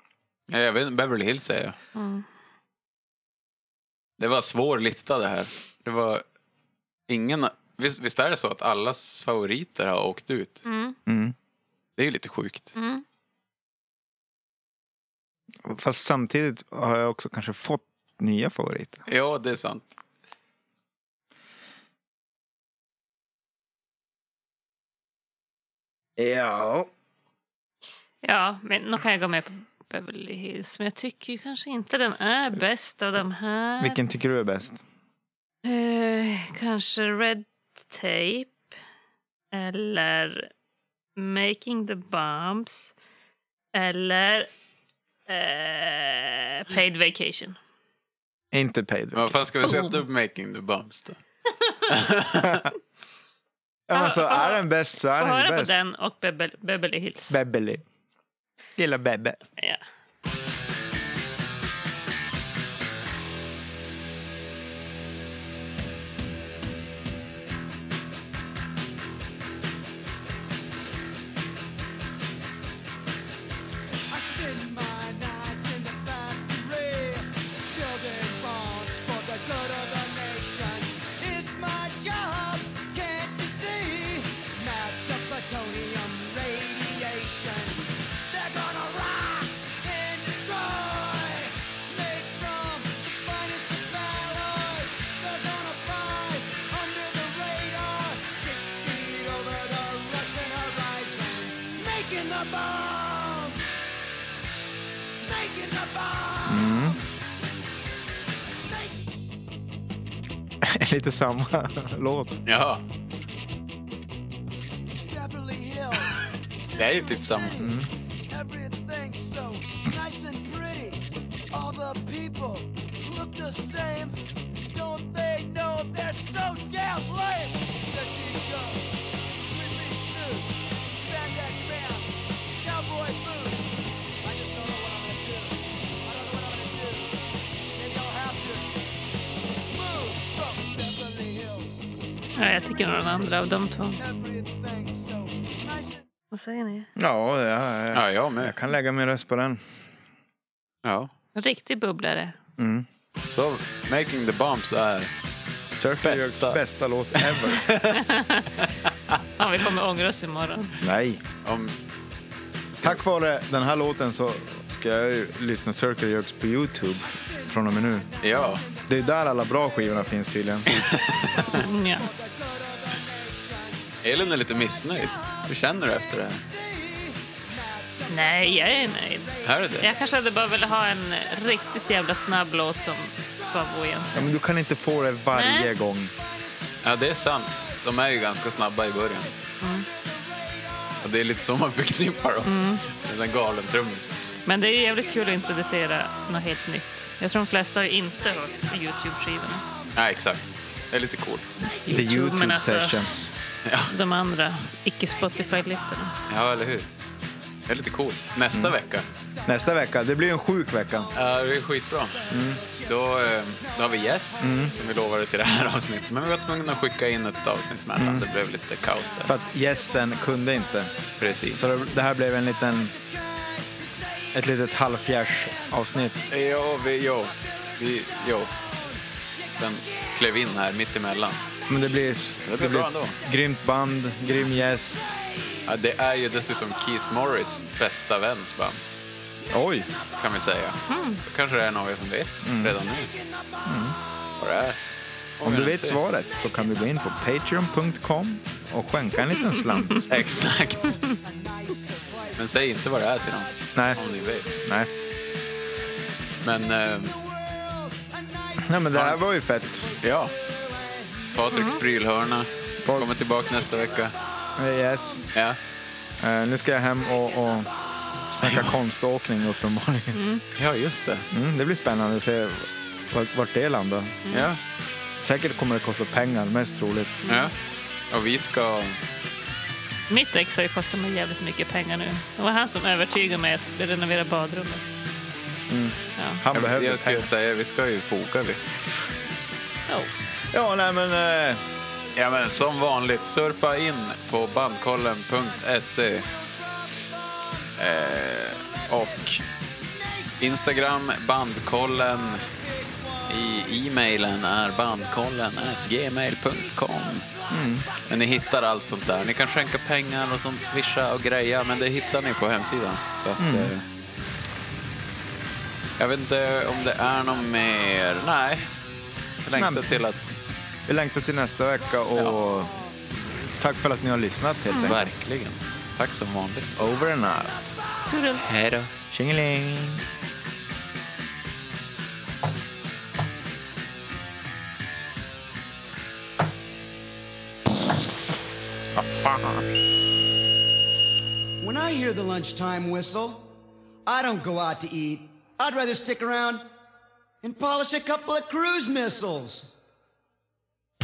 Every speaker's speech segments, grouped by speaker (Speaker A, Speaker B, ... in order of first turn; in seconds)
Speaker A: 0.5-1.8, 4.2-6.2, 7.1-10.6, 12.0-12.8, 19.1-19.9, 49.1-51.2, 51.9-52.7, 112.5-112.8, 116.8-117.6, 147.9-148.6, 150.8-151.1, 153.3-155.1, 156.0-156.6, 157.1-158.0, 158.6-159.2, 161.4-161.8, 162.7-163.0, 168.2-168.6, 170.7-171.6, 174.0-176.4, 179.4-179.9, 186.8-189.3, 191.0-194.2, 199.9-201.6, 203.6-203.9, 206.3-206.9, 207.7-209.1, 211.1-219.3, 221.2-221.7, 226.3-228.5, 229.6-231.4, 232.4-233.2, 235.7-238.8, 240.2-243.1, 244.4-244.8, 245.4-246.0, 250.1-250.9, 252.4-254.5, 256.4-257.1, 258.9-259.2, 260.0-260.3, 261.3-264.1, 265.3-265.6, 268.4-268.7, 270.5-271.3, 274.3-274.6, 277.3-277.5, 278.1-279.0, 286.5-288.6, 292.1-296.3, 297.8-299.4, 300.4-302.5, 303.3-307.3, 308.0-313.8, 316.0-318.7, 319.4-320.4, 322.1-322.4, 324.8-326.9, 328.4-328.9
Speaker B: 1.9-2.2, 10.7-10.9, 12.8-13.0, 28.2-34.0, 35.6-38.5, 39.5-40.5, 41.2-42.9, 43.7-44.5, 45.3-47.6, 49.6-50.0, 53.9-57.4, 142.4-144.0, 146.3-146.9, 151.3-152.3, 157.9-158.5, 159.4-160.7, 171.6-172.1, 178.1-184.3, 185.3-185.7, 189.6-189.9, 192.4-192.8, 194.4-199.6, 201.8-203.0, 203.9-206.2, 240.9-241.2, 261.5-261.8, 270.1-270.4, 277.2-277.5, 280.1-284.8, 286.2-286.4, 328.1-328.5
Speaker C: 11.1-11.3, 15.6-19.0, 26.2-26.9, 33.8-34.8, 48.5-49.7, 53.9-55.7, 57.3-57.8, 58.8-59.4, 106.5-107.0, 110.6-112.4, 117.6-117.9, 146.9-149.6, 152.6-152.9, 155.8-157.7, 160.8-161.2, 162.8-168.1, 168.9-170.7, 184.1-186.1, 201.9-203.3, 209.4-211.1, 212.3-212.6, 214.4-214.7, 218.0-218.3, 219.2-220.9, 221.5-222.9, 224.3-226.2, 231.7-235.2, 239.5-239.9, 242.4-242.8, 243.7-244.0, 245.4-250.1, 253.7-254.0, 254.6-254.9, 258.6-259.9, 262.8-263.1, 264.6-265.2, 266.2-267.7, 268.3-270.2, 271.3-274.2, 275.2-277.2, 285.7-287.3, 290.5-291.6, 307.5-307.9, 313.4-313.7, 319.5-320.0, 320.9-322.7, 323.6-325.0, 326.8-327.6, 328.9-330.0, 338.9-339.6
Speaker D: 74.1-103.7, 105.2-107.0, 108.5-109.1, 115.1-117.8, 118.3-137.2, 137.7-138.8, 139.7-143.3, 144.0-146.1, 167.2-182.1, 183.2-184.3, 186.2-188.4, 189.2-193.9, 195.0-195.6, 198.2-198.9, 199.6-200.0, 208.6-209.9, 211.0-214.9, 215.5-217.0, 217.9-221.9, 222.8-224.5, 225.2-230.6, 231.4-233.4, 234.1-237.7, 239.8-240.1, 240.8-241.2, 242.8-244.6, 246.2-247.2, 249.9-255.4, 257.0-261.6, 263.3-265.3, 267.3-267.7, 294.8-299.2, 299.8-300.7, 302.1-308.5, 309.1-309.6, 310.3-310.7, 311.7-312.4, 322.5-322.9, 341.6-343.5, 344.1-346.6, 347.4-349.8